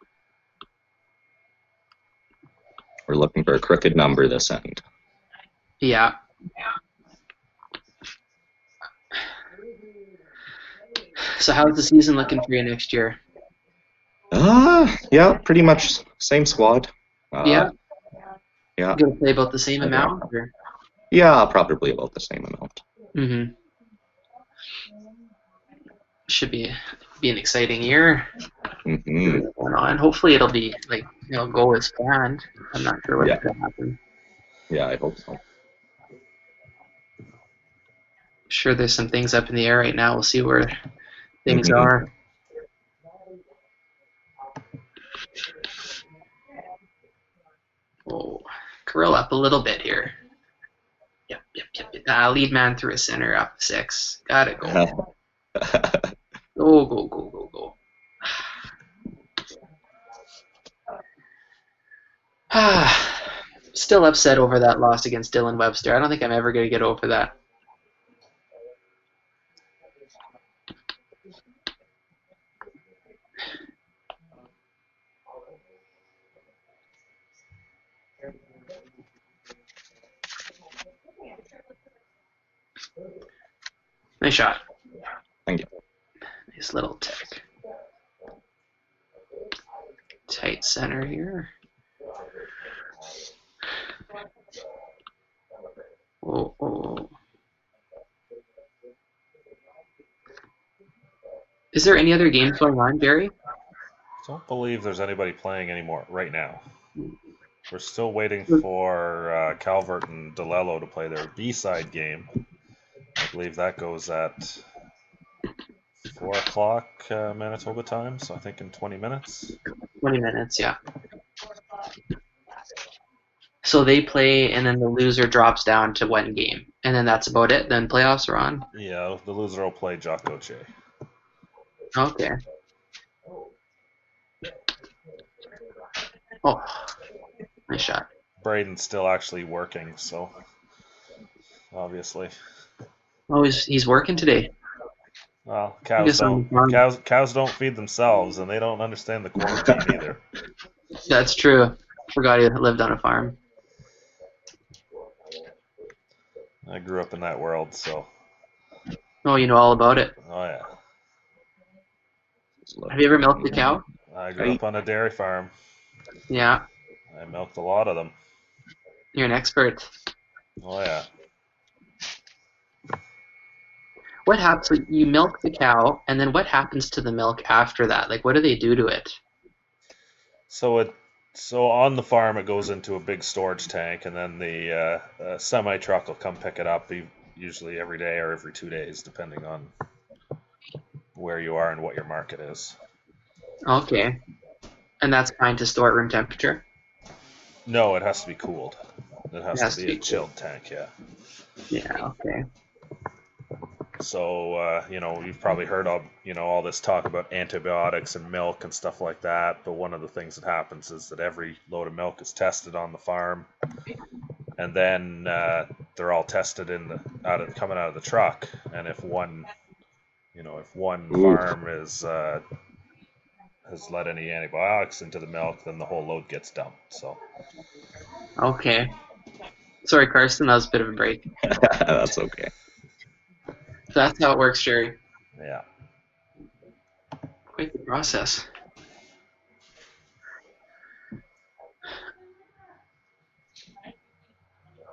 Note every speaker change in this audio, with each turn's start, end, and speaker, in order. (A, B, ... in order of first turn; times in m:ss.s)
0:03.1-0:04.8 A
0:05.8-0:06.2 B
0:11.2-0:13.2 B
0:14.3-0:17.7 A
0:17.4-0:17.7 B
0:18.8-0:19.0 A
0:18.9-0:20.5 B
0:19.8-0:20.2 A
0:21.1-0:22.8 A
0:23.1-0:23.5 B
0:26.3-0:28.3 B
0:28.8-0:29.4 A
0:29.2-0:34.0 B
0:34.7-0:35.4 A
0:38.5-0:40.7 B
0:41.4-0:42.1 B
0:41.5-0:42.0 A
0:48.1-0:50.2 B
0:51.3-0:54.9 B
0:54.6-0:55.0 A
0:55.5-0:56.1 A
0:56.6-0:57.8 B
1:02.5-1:07.3 B
1:24.2-1:24.6 B
1:26.5-1:27.4 B
1:30.3-1:31.5 B
1:36.2-1:37.1 B
1:41.7-1:43.3 B
1:44.2-1:46.6 C
1:47.7-1:52.3 C
1:53.2-1:54.6 C
1:56.1-1:59.6 C
2:00.0-2:00.8 B
2:03.6-2:08.6 B
2:08.7-2:10.7 C
2:11.9-2:12.4 B
2:16.4-2:16.8 B
2:17.7-2:18.1 B
2:18.4-2:20.3 C
2:21.7-2:22.3 C
2:23.3-2:24.5 B
2:25.4-2:30.2 C
2:26.0-2:26.8 B
2:31.0-2:33.4 B
2:36.6-2:38.1 C
2:39.2-2:40.1 B
2:40.2-2:40.7 C
2:42.7-2:43.8 A
2:42.9-2:43.8 B
2:44.1-2:45.5 C
2:46.3-2:46.6 B
2:47.1-2:48.1 C
2:49.1-2:49.9 B
2:50.6-2:51.1 C
2:54.3-2:59.2 B
3:00.5-3:09.7 C
3:11.2-3:12.8 C
3:13.7-3:14.2 B
3:15.0-3:16.6 B
3:17.6-3:18.8 C
3:19.3-3:20.9 C
3:19.5-3:20.2 B
3:21.7-3:22.4 B
3:24.0-3:33.5 C
3:34.6-3:39.5 C
3:40.3-3:42.4 C
3:41.1-3:41.4 A
3:43.6-3:47.2 C
3:48.4-3:48.9 B
3:49.8-3:51.2 B
3:51.5-3:52.5 A
3:53.9-3:55.0 B
3:55.4-3:55.6 C
3:57.6-3:58.4 B